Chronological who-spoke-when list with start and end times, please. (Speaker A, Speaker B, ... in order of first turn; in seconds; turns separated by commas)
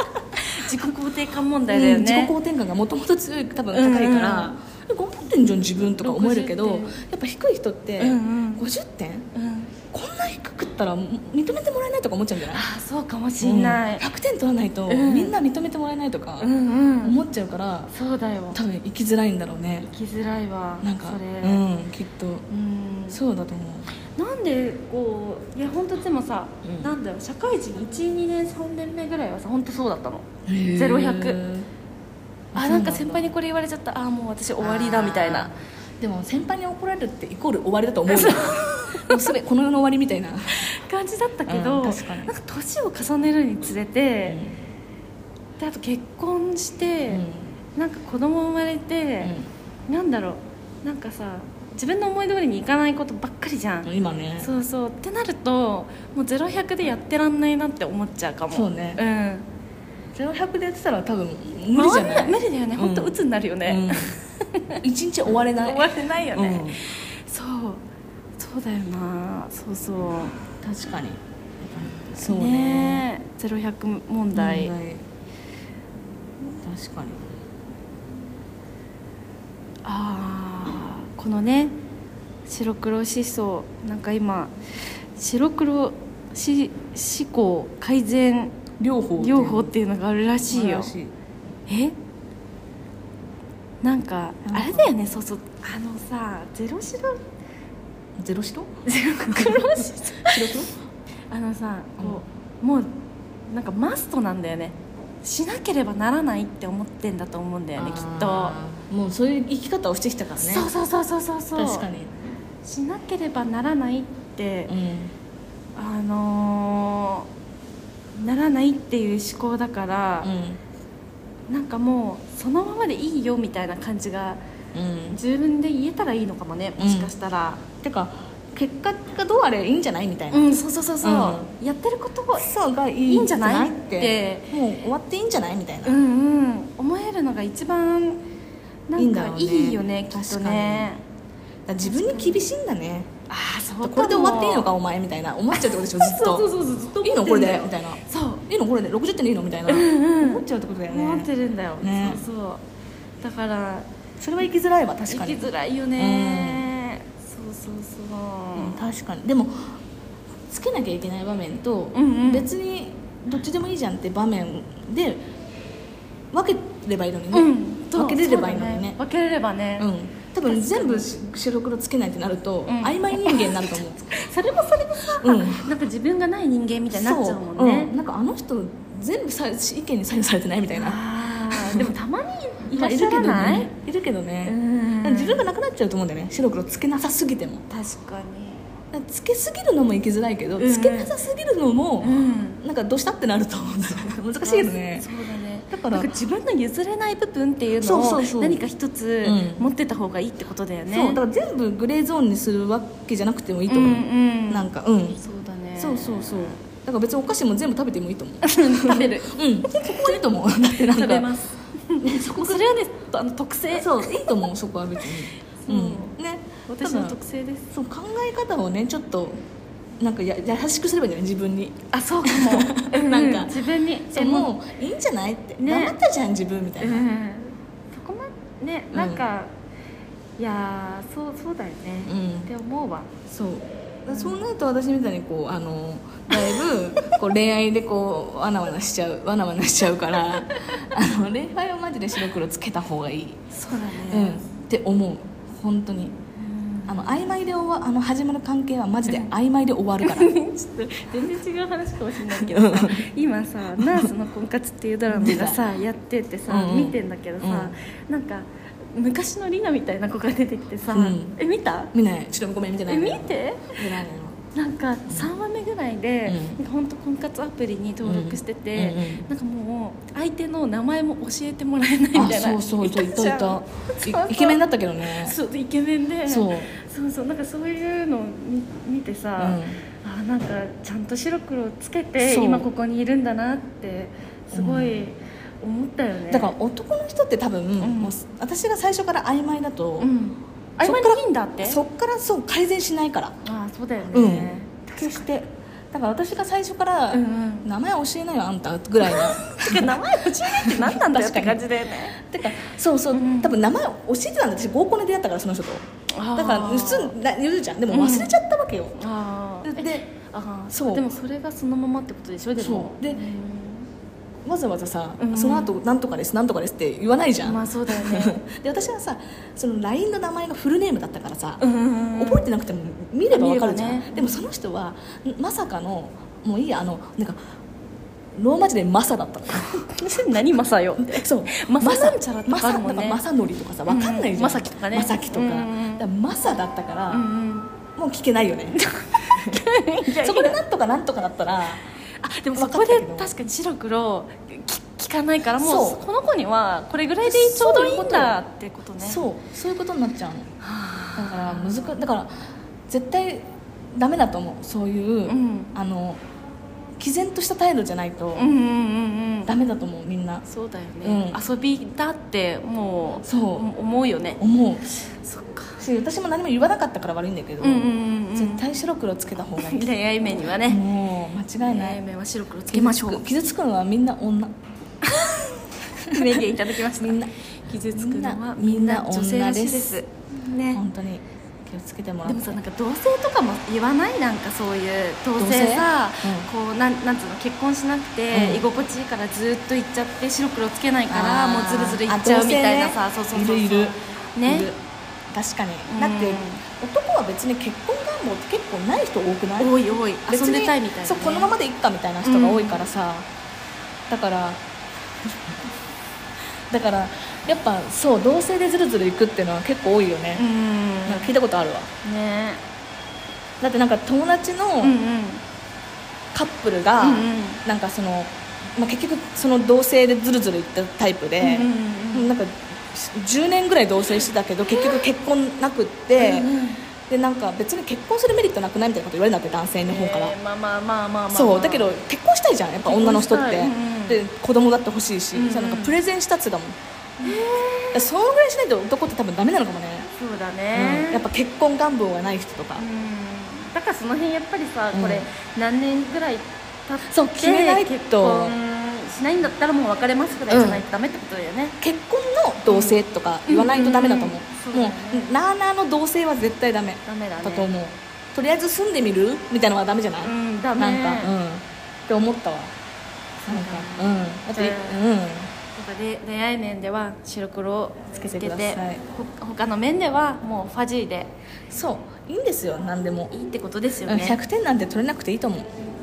Speaker A: 0.4-2.4, Speaker B: 1.7-9.3, Speaker A: 3.7-4.5, Speaker A: 6.0-7.0, Speaker A: 8.0-8.7, Speaker A: 9.3-9.7, Speaker B: 9.9-12.6, Speaker A: 12.5-14.1, Speaker B: 13.4-16.5, Speaker A: 14.9-15.4, Speaker A: 16.4-17.2, Speaker B: 17.0-17.9, Speaker A: 17.9-18.6, Speaker B: 18.5-19.9, Speaker A: 19.8-21.6, Speaker B: 20.8-22.5, Speaker A: 22.5-23.2, Speaker B: 23.1-23.9, Speaker A: 24.2-31.4, Speaker B: 26.6-26.9, Speaker B: 30.5-31.7, Speaker B: 32.5-33.3, Speaker A: 32.5-35.5, Speaker B: 34.6-40.7, Speaker A: 38.1-39.3, Speaker A: 40.5-44.4, Speaker B: 41.5-42.3, Speaker B: 44.3-44.5, Speaker A: 45.6-47.2, Speaker B: 47.1-47.5, Speaker A: 47.8-49.3, Speaker B: 49.2-49.5, Speaker A: 49.9-59.5, Speaker B: 53.9-54.5, Speaker B: 58.5-59.0, Speaker B: 60.1-64.1, Speaker A: 61.7-64.8, Speaker B: 64.8-66.8, Speaker A: 65.6-67.8, Speaker A: 68.4-70.4, Speaker B: 70.6-73.0, Speaker A: 72.2-74.7, Speaker B: 74.3-75.0, Speaker B: 76.6-77.2, Speaker A: 79.8-81.8, Speaker A: 82.5-84.5, Speaker A: 85.2-88.6, Speaker B: 88.8-89.7, Speaker A: 89.2-90.9, Speaker B: 90.5-91.1, Speaker A: 91.7-91.9, Speaker A: 93.8-97.2, Speaker B: 94.4-94.9, Speaker B: 98.2-98.7, Speaker A: 98.9-100.5, Speaker B: 99.3-100.7, Speaker A: 101.3-102.9, Speaker A: 103.5-108.6, Speaker B: 107.8-110.7, Speaker A: 110.4-111.9, Speaker B: 111.5-112.1, Speaker A: 112.6-114.7, Speaker B: 114.7-115.1, Speaker A: 115.8-117.3, Speaker A: 118.2-120.3, Speaker B: 120.2-120.6, Speaker A: 121.5-124.4, Speaker B: 124.7-125.2, Speaker A: 125.1-127.7, Speaker B: 126.8-127.1, Speaker B: 127.8-131.5, Speaker A: 130.3-132.5, Speaker B: 132.4-136.0, Speaker A: 133.1-134.5, Speaker A: 135.8-138.2, Speaker A: 138.9-141.0, Speaker B: 139.0-140.9, Speaker B: 141.7-143.1, Speaker A: 141.8-142.4, Speaker A: 143.3-144.7, Speaker B: 143.8-152.2, Speaker A: 145.6-148.4, Speaker A: 149.7-152.6, Speaker A: 153.2-153.9, Speaker B: 154.2-156.7, Speaker A: 155.1-158.8, Speaker B: 158.6-159.7, Speaker B: 160.5-165.3, Speaker A: 161.9-162.5, Speaker B: 166.3-169.0, Speaker A: 167.3-169.9, Speaker B: 169.8-174.2, Speaker A: 170.4-171.1, Speaker A: 172.7-177.9, Speaker B: 175.2-175.7, Speaker B: 176.9-181.0, Speaker A: 180.7-183.7, Speaker B: 181.5-181.9, Speaker B: 182.7-187.7, Speaker A: 184.4-185.5, Speaker A: 187.7-188.6, Speaker B: 188.9-195.1, Speaker A: 190.6-191.1, Speaker A: 192.0-192.6, Speaker A: 194.4-201.2, Speaker B: 195.7-196.2, Speaker B: 197.8-198.6, Speaker B: 199.2-199.7, Speaker B: 200.9-205.2, Speaker A: 203.7-206.6, Speaker B: 205.8-211.3, Speaker A: 208.4-210.2, Speaker A: 210.7-214.4, Speaker B: 212.0-212.7, Speaker B: 213.7-217.2, Speaker A: 215.7-216.2, Speaker A: 216.7-217.7, Speaker B: 217.7-219.4, Speaker B: 220.0-227.1, Speaker A: 221.9-224.5, Speaker A: 225.6-226.0, Speaker A: 226.8-229.5, Speaker B: 228.9-229.3, Speaker A: 230.4-233.1, Speaker B: 232.1-232.5, Speaker B: 233.3-243.4, Speaker A: 234.1-234.4, Speaker A: 236.3-237.2, Speaker A: 240.3-240.9, Speaker A: 243.5-244.4, Speaker B: 244.1-246.2, Speaker A: 246.4-247.2, Speaker B: 246.9-250.3, Speaker A: 250.0-261.9, Speaker B: 252.3-253.1, Speaker B: 253.8-254.1, Speaker B: 255.1-255.6, Speaker B: 256.5-257.7, Speaker B: 260.9-261.4, Speaker B: 261.9-264.4, Speaker A: 262.9-263.8, Speaker A: 264.5-286.6, Speaker B: 266.2-266.6, Speaker B: 268.0-269.3, Speaker B: 272.1-275.4, Speaker B: 276.3-276.7, Speaker B: 279.4-279.8, Speaker B: 282.2-282.7, Speaker B: 284.5-285.1, Speaker B: 286.3-290.1, Speaker A: 287.8-288.1, Speaker A: 290.0-291.8, Speaker B: 290.8-293.4, Speaker A: 293.4-295.3, Speaker B: 294.1-309.0, Speaker A: 297.1-297.7, Speaker A: 299.0-302.2, Speaker A: 303.1-303.6, Speaker A: 306.1-307.1, Speaker A: 307.9-308.4, Speaker A: 309.0-313.9, Speaker B: 309.6-310.1, Speaker B: 310.7-311.1, Speaker B: 312.6-313.2, Speaker B: 314.4-321.6, Speaker A: 315.2-315.8, Speaker A: 317.4-318.4, Speaker A: 321.6-322.5, Speaker B: 322.2-327.4, Speaker A: 323.3-324.4, Speaker B: 328.4-329.8, Speaker A: 329.7-333.2, Speaker B: 331.0-337.3, Speaker A: 333.9-336.1, Speaker A: 337.1-337.7, Speaker B: 338.0-338.8, Speaker A: 338.8-340.6, Speaker B: 339.3-341.8, Speaker A: 342.2-349.2, Speaker B: 342.6-343.3, Speaker B: 345.6-346.0, Speaker B: 347.2-348.4, Speaker B: 349.0-350.5, Speaker A: 350.6-352.0, Speaker B: 351.2-352.3, Speaker B: 352.9-356.2, Speaker A: 355.3-355.7, Speaker B: 357.0-358.5, Speaker A: 358.4-359.5, Speaker B: 359.5-360.4, Speaker A: 360.5-364.4, Speaker B: 361.0-361.4, Speaker B: 363.2-363.7, Speaker B: 364.4-364.9, Speaker A: 364.9-365.8, Speaker B: 365.8-369.9, Speaker A: 367.6-368.7, Speaker A: 369.6-370.8, Speaker B: 370.6-372.0, Speaker A: 371.6-373.3, Speaker B: 372.7-374.5, Speaker A: 375.0-380.8, Speaker B: 376.0-377.3, Speaker B: 377.9-380.0, Speaker B: 380.7-382.6, Speaker A: 382.2-394.7, Speaker B: 385.4-386.5, Speaker B: 388.3-388.7, Speaker B: 391.1-394.8, Speaker B: 395.3-403.3, Speaker A: 395.9-396.6, Speaker A: 399.6-401.5, Speaker A: 402.2-402.9, Speaker B: 404.1-404.6, Speaker B: 405.2-405.6, Speaker B: 406.7-410.4, Speaker A: 410.4-411.3, Speaker B: 411.1-411.9, Speaker A: 412.0-412.6, Speaker B: 413.6-415.0, Speaker A: 414.8-415.4, Speaker B: 416.3-426.5, Speaker A: 417.0-417.6, Speaker A: 421.4-422.4, Speaker A: 426.2-426.8, Speaker B: 427.1-430.4, Speaker A: 429.9-431.9, Speaker B: 431.3-437.4, Speaker A: 432.9-434.3, Speaker A: 435.3-436.0, Speaker A: 437.2-438.1, Speaker B: 437.9-440.1, Speaker A: 440.2-441.2, Speaker B: 440.7-442.9, Speaker A: 442.8-451.8, Speaker B: 444.9-445.3, Speaker B: 447.1-448.6, Speaker B: 450.5-450.8, Speaker B: 451.8-462.7, Speaker A: 452.7-455.3, Speaker A: 457.1-457.7, Speaker A: 460.2-461.3, Speaker A: 463.4-465.0, Speaker B: 463.5-465.5, Speaker A: 465.7-471.3, Speaker B: 468.1-469.0, Speaker B: 471.7-473.3, Speaker A: 473.3-474.4, Speaker B: 474.1-475.7